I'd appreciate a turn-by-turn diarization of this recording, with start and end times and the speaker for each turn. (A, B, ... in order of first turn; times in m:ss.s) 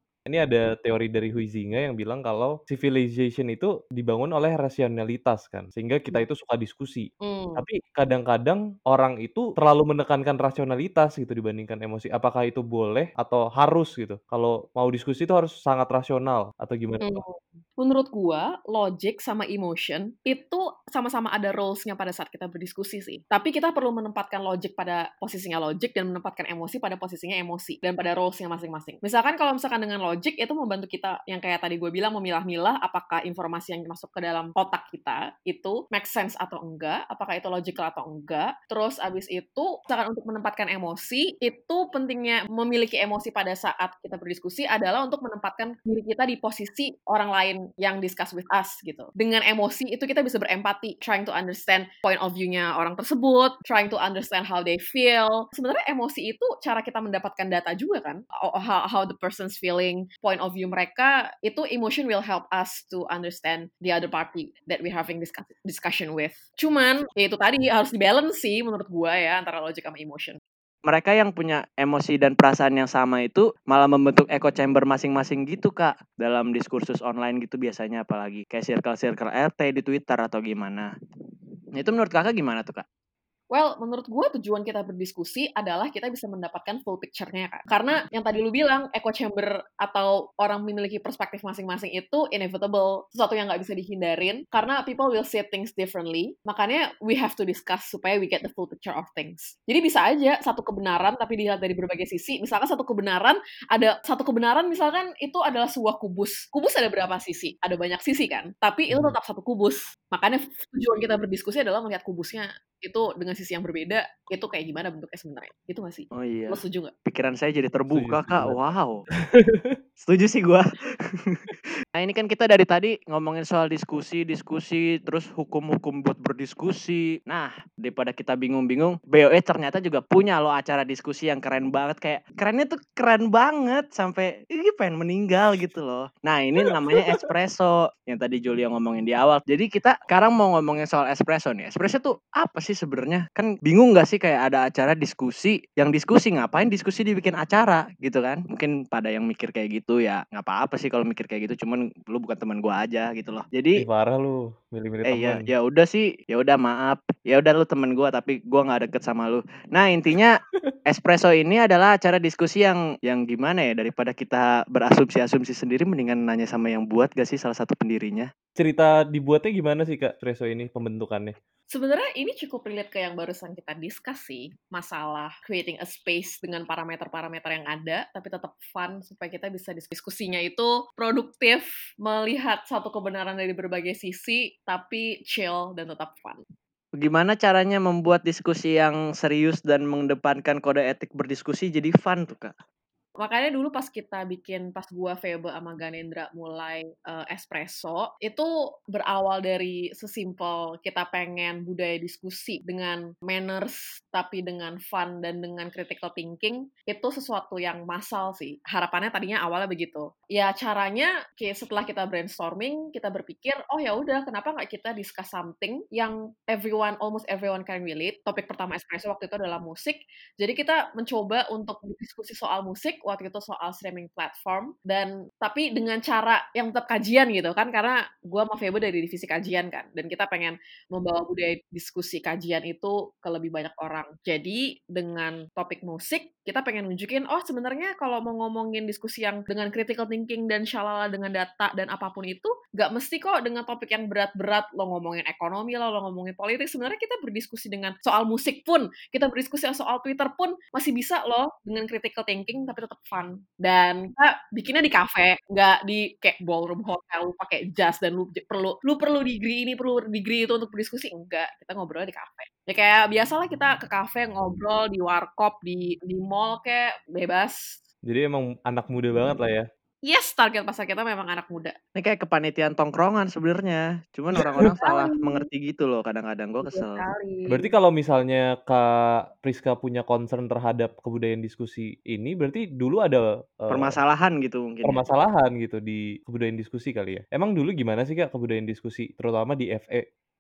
0:00.3-0:17.2 A
0:07.2-0:07.6 B
0:17.0-1:10.4 B
1:10.9-1:20.9 C
1:21.7-1:22.8 C
1:23.5-1:56.9 B
1:56.2-1:59.0 C
1:57.9-1:58.6 A
1:59.3-1:59.8 A
2:00.0-2:00.6 C
2:01.2-2:33.8 C
2:16.8-2:17.2 A
2:33.8-2:35.5 A
2:35.0-2:48.3 C
2:48.6-2:51.3 A
2:51.7-3:06.4 B
3:07.0-3:12.5 C
3:13.2-4:27.8 B
4:28.0-4:29.7 A
4:30.0-4:31.7 B
4:32.0-4:37.0 C
4:34.3-4:34.7 A
4:34.6-4:35.4 B
4:36.6-4:37.7 B
4:37.5-4:44.0 A
4:43.7-4:45.0 C
4:44.8-4:50.0 A